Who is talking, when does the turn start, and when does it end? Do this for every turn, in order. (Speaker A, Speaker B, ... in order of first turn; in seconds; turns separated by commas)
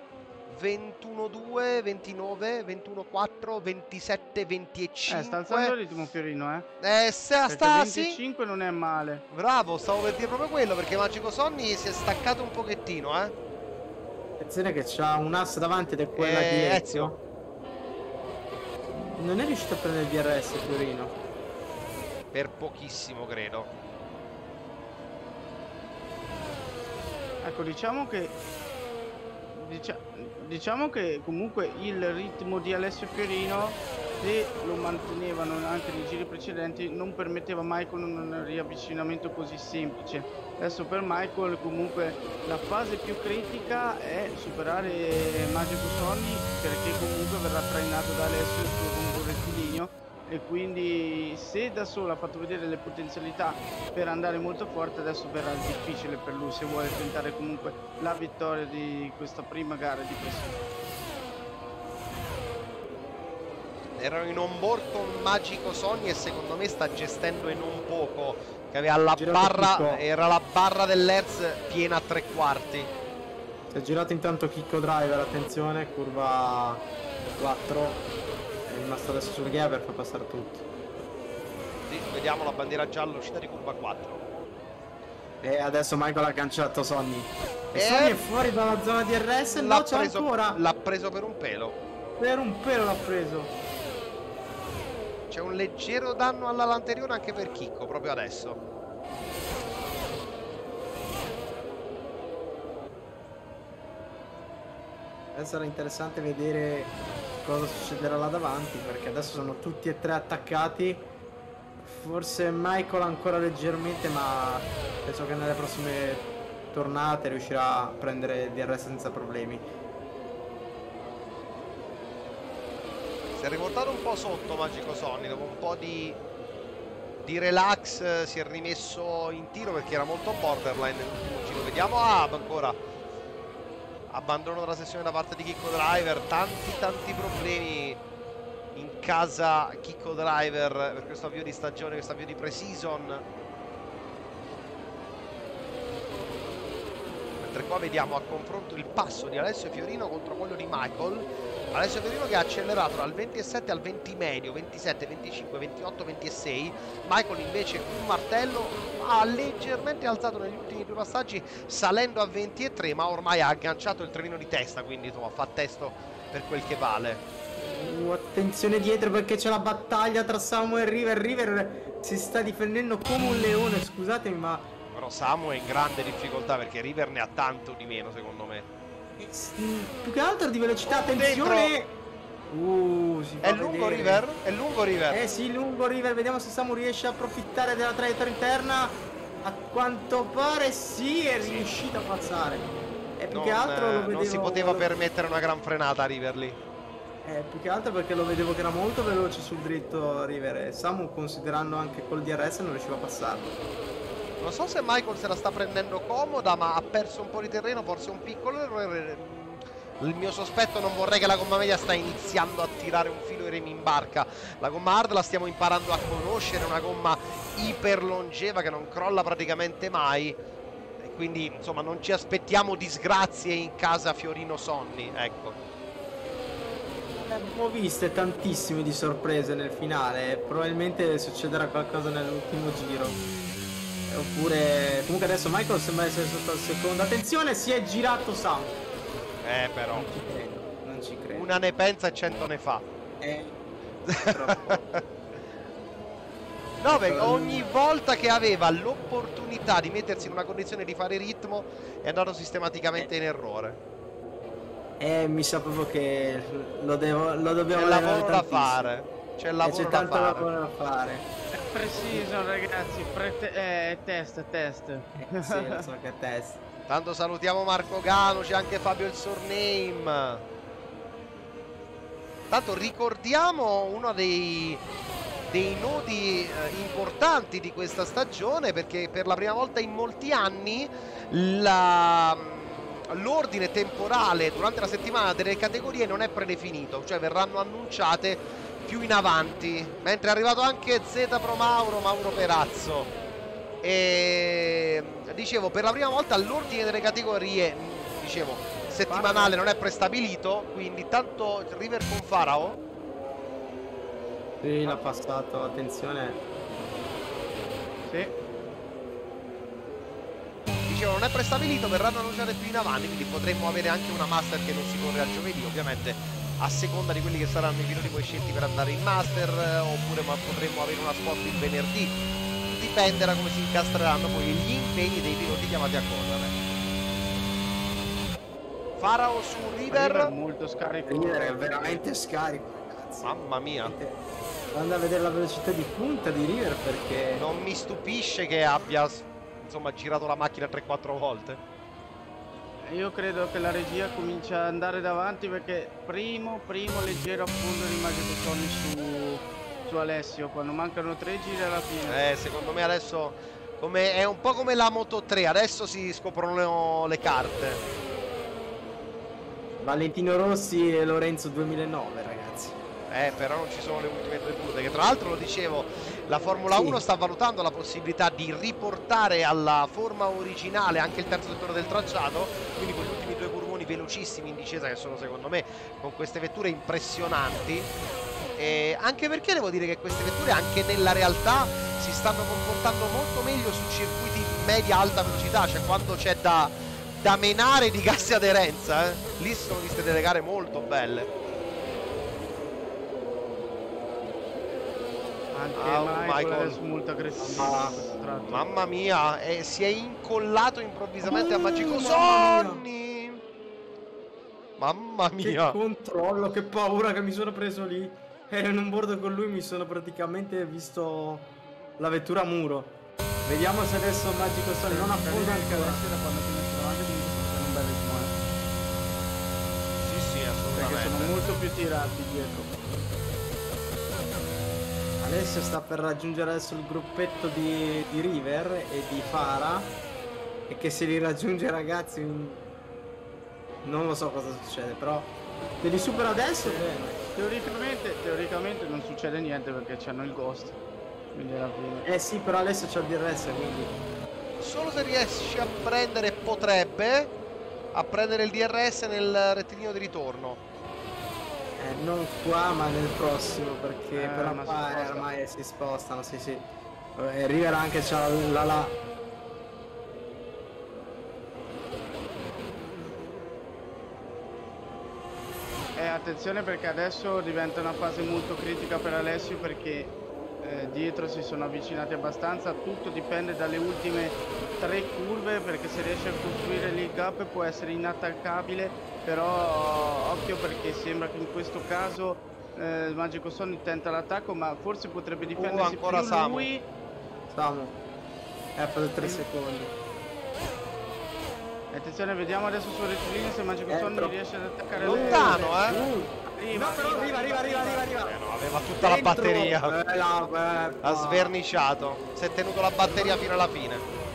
Speaker A: 0.5-5.7, Speaker B: 5.1-6.7, Speaker A: 6.8-8.2, Speaker B: 7.5-9.2, Speaker A: 9.3-13.3, Speaker C: 14.4-17.2, Speaker A: 16.1-17.1, Speaker C: 18.9-21.1, Speaker A: 22.3-23.7, Speaker B: 27.4-28.3, Speaker B: 29.5-60.6, Speaker A: 64.0-72.9, Speaker C: 69.1-70.0, Speaker C: 73.7-76.9, Speaker C: 77.4-78.0, Speaker C: 78.7-80.7, Speaker A: 81.9-84.2, Speaker C: 85.4-90.6, Speaker A: 87.8-88.2, Speaker A: 89.6-91.8, Speaker C: 92.2-93.5, Speaker A: 95.3-98.6, Speaker C: 105.3-111.1, Speaker C: 111.8-119.6, Speaker A: 123.4-126.2, Speaker A: 127.2-132.8, Speaker A: 134.1-138.0, Speaker A: 138.8-143.2, Speaker A: 147.4-167.2, Speaker C: 167.6-174.7, Speaker A: 174.9-178.7, Speaker C: 179.2-181.9, Speaker A: 180.9-181.7, Speaker C: 182.5-184.2, Speaker A: 183.4-185.2, Speaker C: 185.1-194.9, Speaker A: 191.4-191.7, Speaker A: 193.3-196.6, Speaker C: 197.2-203.6, Speaker A: 204.4-220.4, Speaker A: 221.0-225.6, Speaker C: 227.2-233.2, Speaker C: 234.1-238.8, Speaker A: 239.4-240.1, Speaker C: 239.9-241.5, Speaker A: 241.3-242.8, Speaker C: 243.2-243.6, Speaker A: 244.1-245.0, Speaker C: 244.3-244.8, Speaker A: 246.8-253.8, Speaker C: 246.9-247.7, Speaker C: 255.0-258.9, Speaker A: 257.7-260.5, Speaker C: 259.6-261.3, Speaker B: 261.6-265.9, Speaker C: 265.2-266.6, Speaker A: 266.9-270.4, Speaker A: 272.5-274.8, Speaker A: 275.5-293.1, Speaker A: 293.8-302.8, Speaker B: 299.1-299.6, Speaker C: 304.6-306.4, Speaker B: 308.1-308.3, Speaker A: 310.9-322.2, Speaker A: 322.7-326.5, Speaker A: 329.0-330.3, Speaker B: 329.9-332.1, Speaker C: 331.0-334.2, Speaker A: 333.2-333.9, Speaker C: 334.7-337.5, Speaker A: 337.4-341.6, Speaker B: 342.9-352.2, Speaker A: 352.1-357.8, Speaker C: 359.8-362.8, Speaker A: 363.1-377.9, Speaker C: 366.7-367.0, Speaker A: 378.6-391.3, Speaker B: 395.5-398.7, Speaker A: 395.8-396.8, Speaker C: 397.4-398.0, Speaker A: 398.5-403.4, Speaker C: 401.2-402.8, Speaker A: 404.8-405.8, Speaker C: 405.4-416.0, Speaker B: 414.9-418.4, Speaker A: 420.0-421.4, Speaker B: 420.7-422.8, Speaker C: 425.2-430.0, Speaker C: 430.7-432.6, Speaker C: 433.8-437.2, Speaker B: 436.1-440.8, Speaker B: 441.3-442.1, Speaker C: 442.0-444.0, Speaker A: 444.6-447.3, Speaker A: 447.9-450.6, Speaker C: 451.8-459.0, Speaker B: 454.2-455.3, Speaker B: 466.0-486.9, Speaker A: 485.6-486.7, Speaker C: 487.5-488.0, Speaker C: 488.8-489.9, Speaker B: 491.9-498.1, Speaker C: 493.9-494.3, Speaker C: 494.9-498.4, Speaker A: 495.1-496.0, Speaker A: 498.3-499.9, Speaker C: 499.0-501.5, Speaker A: 501.0-504.1